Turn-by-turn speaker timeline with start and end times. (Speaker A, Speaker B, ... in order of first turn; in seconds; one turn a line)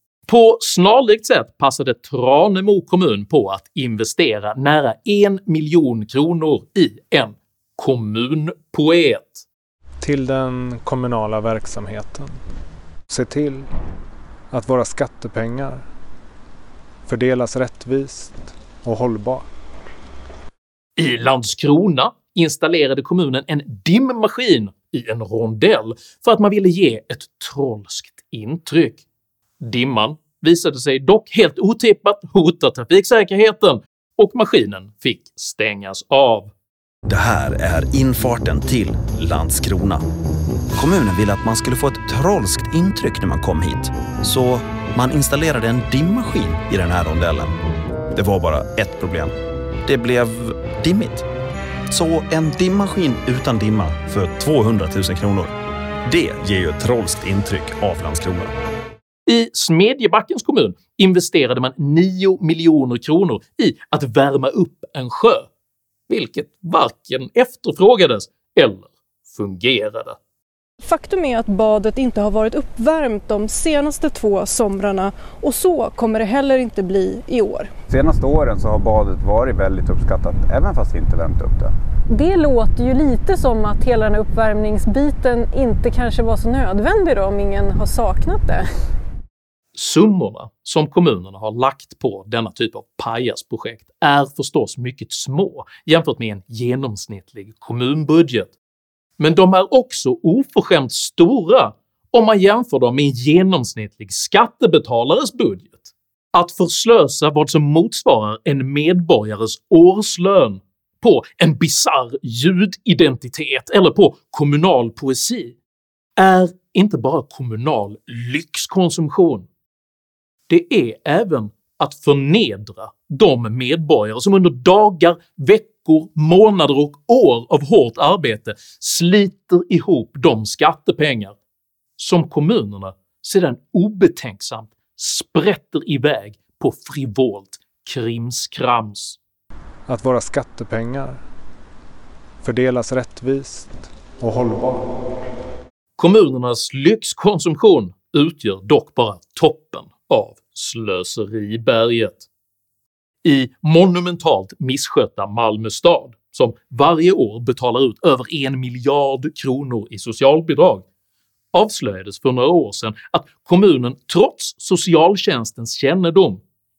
Speaker A: 0.3-9.4
Speaker B: 10.0-12.4
Speaker B: 13.1-13.7
Speaker B: 14.5-15.8
Speaker B: 17.1-19.4
Speaker A: 21.0-29.0
Speaker A: 29.6-36.5
Speaker C: 37.0-40.0
Speaker C: 40.8-47.5
Speaker C: 48.1-51.2
Speaker C: 51.9-55.5
Speaker C: 56.0-58.5
Speaker A: 59.2-65.5
Speaker A: 66.1-70.2
Speaker D: 70.8-77.7
Speaker E: 77.9-81.7
Speaker D: 82.1-88.7
Speaker A: 89.7-98.5
Speaker A: 99.2-115.5
Speaker A: 116.2-119.5
Speaker A: 120.5-131.3
Speaker A: 132.0-139.2
Speaker B: 139.9-141.2
Speaker B: 142.4-144.8
Speaker A: 146.0-152.2
Speaker A: 153.2-160.8
Speaker A: 161.5-166.4